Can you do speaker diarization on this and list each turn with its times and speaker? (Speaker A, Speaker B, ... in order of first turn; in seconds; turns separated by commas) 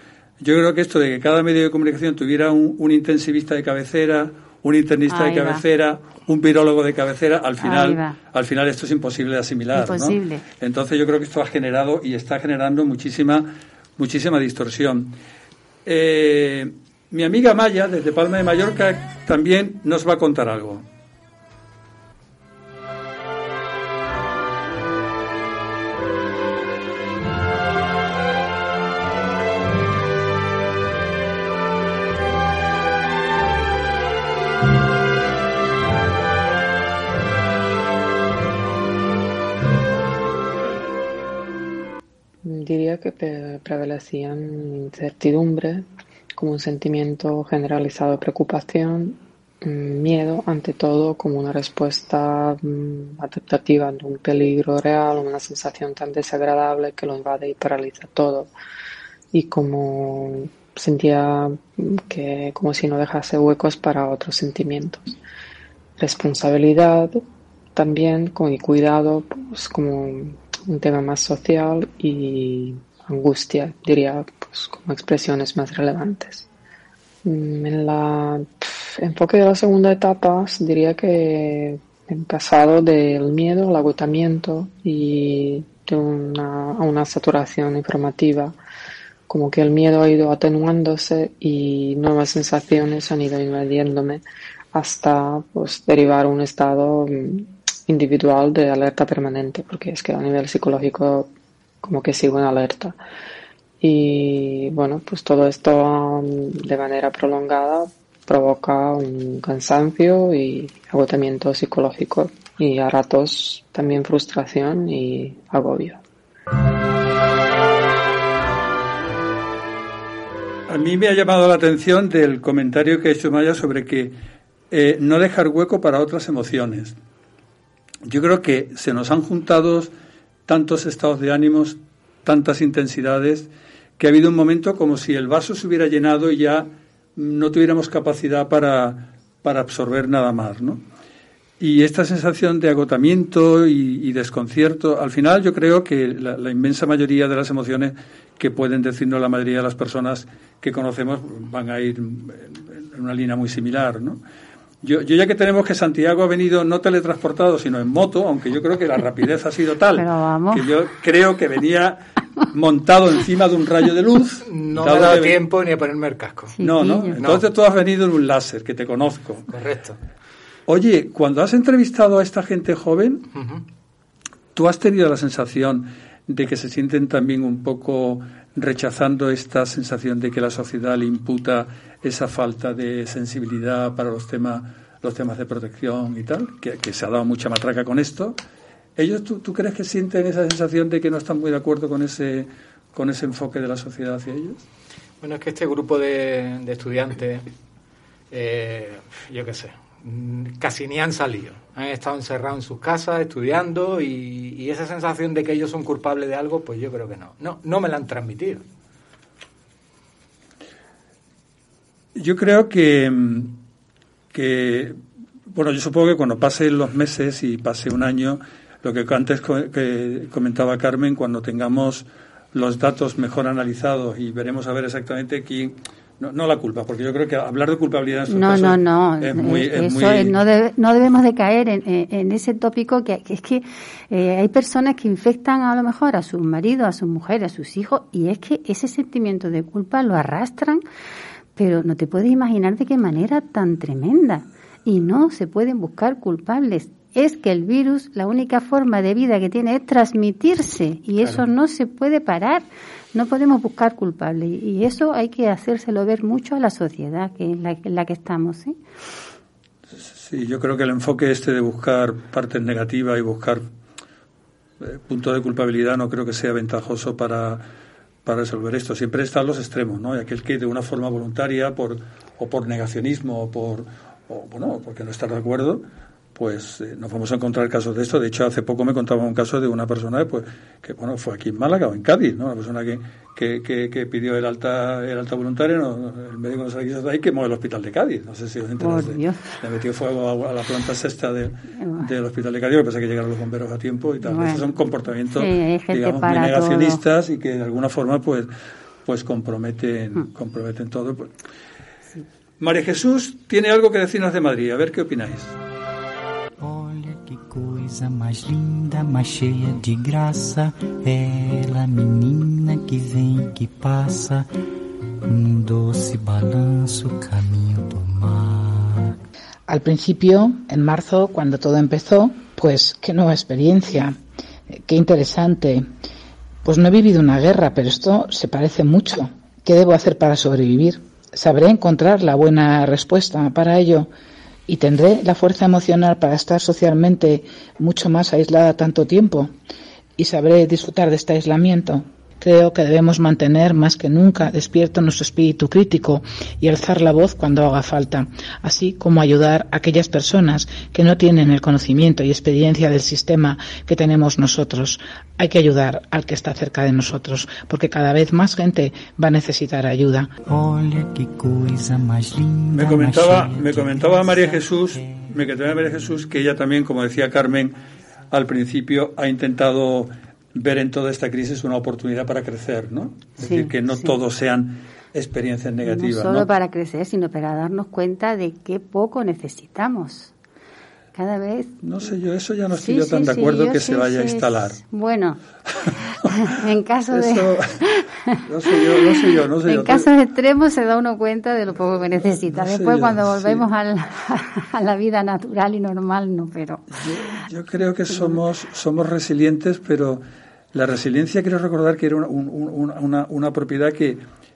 Speaker A: 0.4-15.1, Speaker B: 5.1-5.6, Speaker B: 7.6-8.2, Speaker B: 9.8-10.4, Speaker A: 15.9-20.8, Speaker C: 42.5-45.9, Speaker C: 46.4-58.5, Speaker C: 59.3-65.1, Speaker C: 66.0-67.2, Speaker C: 67.8-76.5, Speaker C: 77.2-88.6, Speaker C: 89.3-94.2, Speaker C: 94.7-101.3, Speaker C: 101.8-103.0, Speaker C: 103.8-116.0, Speaker A: 120.7-124.2, Speaker A: 124.7-127.0, Speaker A: 128.1-129.9, Speaker A: 130.5-140.8, Speaker A: 141.6-154.2, Speaker A: 154.8-165.4, Speaker B: 160.0-160.7, Speaker D: 164.5-166.6, Speaker B: 166.5-167.2, Speaker A: 166.6-169.5, Speaker D: 167.2-167.4, Speaker D: 169.5-170.0, Speaker A: 170.7-173.3, Speaker D: 173.3-173.6, Speaker A: 174.6-188.4, Speaker A: 189.0-194.6, Speaker D: 195.2-197.4, Speaker D: 198.3-208.7, Speaker A: 212.2-213.6, Speaker A: 214.3-215.0, Speaker A: 215.5-230.4, Speaker B: 228.3-240.8, Speaker B: 241.6-258.8, Speaker A: 260.1-263.6, Speaker A: 264.8-267.6, Speaker A: 268.2-298.5, Speaker B: 288.8-289.5, Speaker B: 291.8-292.1, Speaker B: 294.2-294.7, Speaker B: 295.3-297.0, Speaker A: 299.1-301.3, Speaker A: 302.6-305.6, Speaker E: 306.6-314.5, Speaker E: 315.2-319.2, Speaker F: 319.7-324.2, Speaker F: 324.7-325.9, Speaker F: 326.6-334.1, Speaker F: 334.7-339.5, Speaker F: 340.2-360.3, Speaker E: 360.5-365.2, Speaker A: 362.7-367.8, Speaker A: 368.3-376.5, Speaker B: 373.4-374.1, Speaker B: 375.9-380.3, Speaker B: 381.1-381.8, Speaker A: 381.8-384.8, Speaker B: 382.7-385.4, Speaker B: 386.2-396.9, Speaker A: 387.1-387.8, Speaker A: 388.4-390.1, Speaker A: 392.5-393.6, Speaker A: 396.9-400.2, Speaker B: 398.1-398.4, Speaker A: 400.7-404.2